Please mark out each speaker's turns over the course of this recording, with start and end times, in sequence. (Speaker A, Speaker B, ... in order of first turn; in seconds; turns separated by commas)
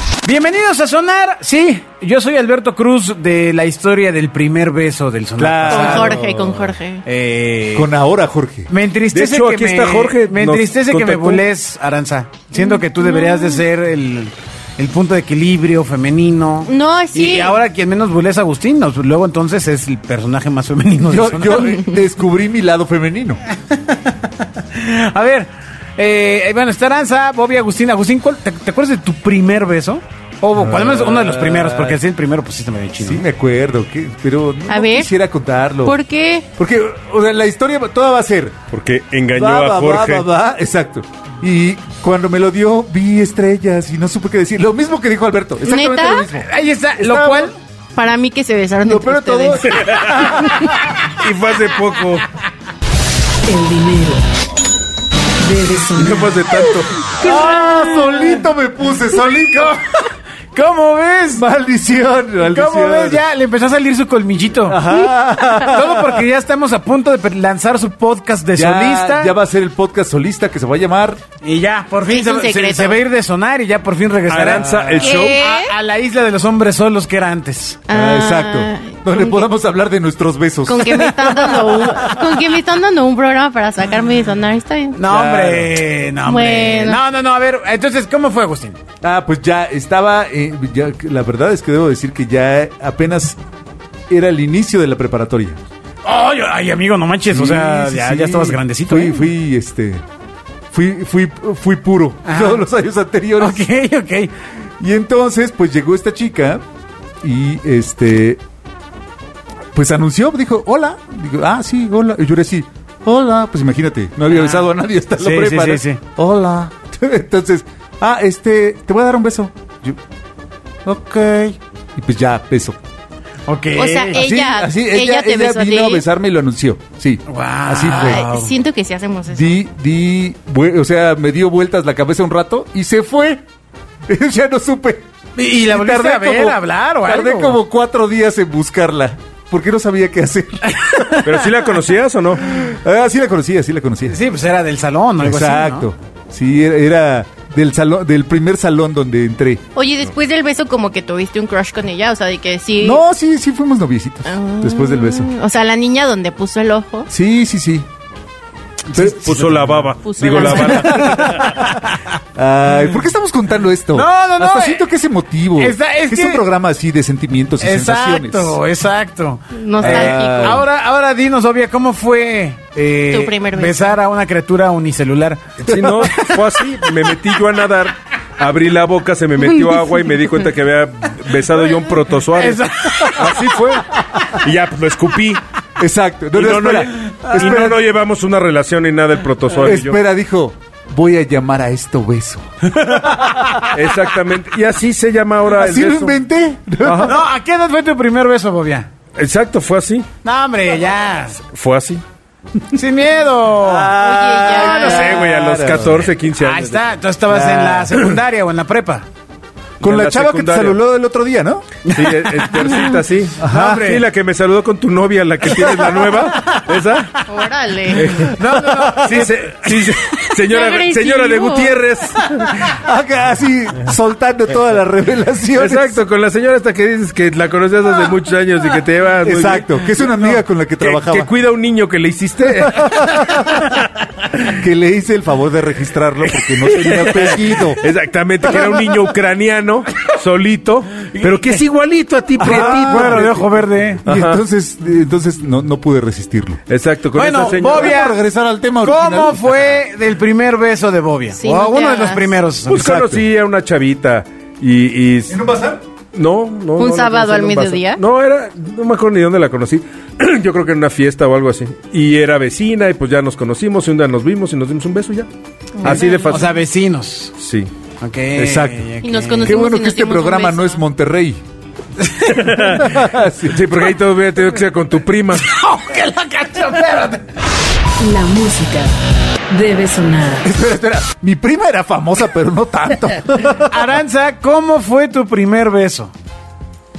Speaker A: 0.2-6.2, Speaker B: 5.4-6.7, Speaker C: 5.7-7.0, Speaker A: 7.0-7.9, Speaker B: 7.7-8.7, Speaker A: 8.7-21.8, Speaker D: 9.1-11.4, Speaker C: 12.6-13.6, Speaker C: 16.6-17.6, Speaker B: 21.0-23.4, Speaker A: 23.5-33.2, Speaker B: 30.6-32.0, Speaker B: 33.0-36.0, Speaker C: 34.7-35.1, Speaker C: 35.8-36.5, Speaker B: 36.6-38.6, Speaker D: 38.7-40.2, Speaker B: 39.3-47.5, Speaker C: 45.6-46.3, Speaker A: 46.4-47.6, Speaker C: 48.0-50.7, Speaker B: 48.9-50.7, Speaker D: 49.7-50.3, Speaker D: 51.1-52.3, Speaker E: 53.5-54.2, Speaker E: 55.4-57.5, Speaker D: 56.0-56.9, Speaker A: 57.1-58.4, Speaker B: 57.2-59.8, Speaker A: 59.5-59.8, Speaker A: 60.5-61.4, Speaker B: 61.4-63.2, Speaker A: 62.4-64.9, Speaker B: 64.7-66.2, Speaker A: 65.6-69.3, Speaker B: 68.5-71.2, Speaker A: 71.4-77.8, Speaker C: 72.1-73.0, Speaker D: 74.3-75.4, Speaker C: 75.0-75.8, Speaker C: 77.9-79.5, Speaker B: 77.9-81.1, Speaker C: 80.7-85.0, Speaker A: 80.9-82.3, Speaker A: 84.9-88.8, Speaker B: 85.1-85.8, Speaker C: 86.2-87.0, Speaker B: 89.0-93.4, Speaker B: 94.1-95.6, Speaker A: 96.0-99.3, Speaker B: 97.3-100.0, Speaker B: 100.7-103.7, Speaker A: 102.2-102.6, Speaker A: 103.4-104.3, Speaker B: 104.8-106.6, Speaker B: 107.2-108.4, Speaker B: 109.7-120.0, Speaker A: 114.3-114.7, Speaker A: 115.2-116.0, Speaker B: 120.8-122.8, Speaker A: 123.5-124.2, Speaker C: 123.7-126.0, Speaker B: 124.1-128.2, Speaker A: 127.3-128.5, Speaker C: 127.9-129.6, Speaker B: 129.3-133.4, Speaker B: 134.1-135.1, Speaker A: 135.4-137.6, Speaker B: 135.6-141.3, Speaker A: 140.8-141.2, Speaker D: 141.2-142.6, Speaker B: 142.5-144.2, Speaker A: 144.1-145.9, Speaker B: 145.2-149.6, Speaker C: 149.8-153.0, Speaker B: 152.8-155.3, Speaker C: 154.2-157.1, Speaker B: 157.1-157.9, Speaker A: 158.9-162.0, Speaker B: 158.9-161.8, Speaker D: 159.2-161.6, Speaker C: 160.1-161.1, Speaker B: 162.3-168.6, Speaker A: 163.9-164.8, Speaker A: 165.6-166.4, Speaker A: 167.6-175.4, Speaker C: 169.5-170.6, Speaker B: 169.8-170.7, Speaker C: 173.1-173.9, Speaker D: 175.6-185.4, Speaker B: 175.7-176.2, Speaker A: 176.1-176.9, Speaker C: 179.6-180.1, Speaker A: 182.3-183.4, Speaker B: 183.8-184.4, Speaker B: 185.8-187.8, Speaker D: 186.3-190.0, Speaker B: 189.6-192.5, Speaker A: 192.8-193.3, Speaker B: 193.1-193.7, Speaker D: 193.7-196.2, Speaker B: 195.5-197.2, Speaker D: 196.8-197.2, Speaker A: 197.0-198.9, Speaker D: 199.2-200.1, Speaker A: 200.2-201.4, Speaker D: 201.5-202.0, Speaker A: 202.7-203.9, Speaker B: 203.6-206.1, Speaker C: 204.0-205.2, Speaker D: 204.6-206.8, Speaker A: 206.4-209.1, Speaker B: 207.3-208.0, Speaker D: 209.8-210.8, Speaker B: 209.8-211.7, Speaker A: 211.9-212.9, Speaker D: 211.9-217.2, Speaker B: 213.4-214.0, Speaker A: 213.4-214.0, Speaker B: 215.5-216.0, Speaker A: 215.7-216.7, Speaker C: 217.3-218.1, Speaker D: 217.9-222.8, Speaker A: 218.3-219.8, Speaker B: 218.4-219.4, Speaker C: 220.4-221.8, Speaker B: 222.7-226.0, Speaker D: 225.6-233.7, Speaker B: 229.2-231.3, Speaker B: 232.7-233.5, Speaker B: 234.6-237.8, Speaker A: 236.6-237.7, Speaker D: 236.7-243.5, Speaker A: 241.2-241.6, Speaker A: 242.4-244.0, Speaker B: 242.4-243.4, Speaker B: 244.0-246.6, Speaker D: 244.1-244.4, Speaker D: 246.7-248.0, Speaker A: 247.1-248.2, Speaker B: 247.5-249.6, Speaker A: 248.8-253.1, Speaker C: 251.3-252.3, Speaker D: 252.7-255.4, Speaker B: 252.8-253.2, Speaker B: 255.3-255.8, Speaker D: 256.1-265.3, Speaker C: 256.8-258.0, Speaker C: 265.8-266.4, Speaker D: 265.8-266.6, Speaker A: 265.8-267.3, Speaker D: 267.4-267.7, Speaker A: 268.0-269.5, Speaker B: 268.4-268.9, Speaker C: 269.0-270.8, Speaker B: 269.4-271.4, Speaker A: 272.0-272.4, Speaker D: 272.3-273.0, Speaker B: 272.6-273.7, Speaker D: 273.5-275.5, Speaker A: 275.4-277.3, Speaker E: 278.0-278.9, Speaker E: 279.5-280.5, Speaker B: 280.4-283.8, Speaker A: 283.7-286.1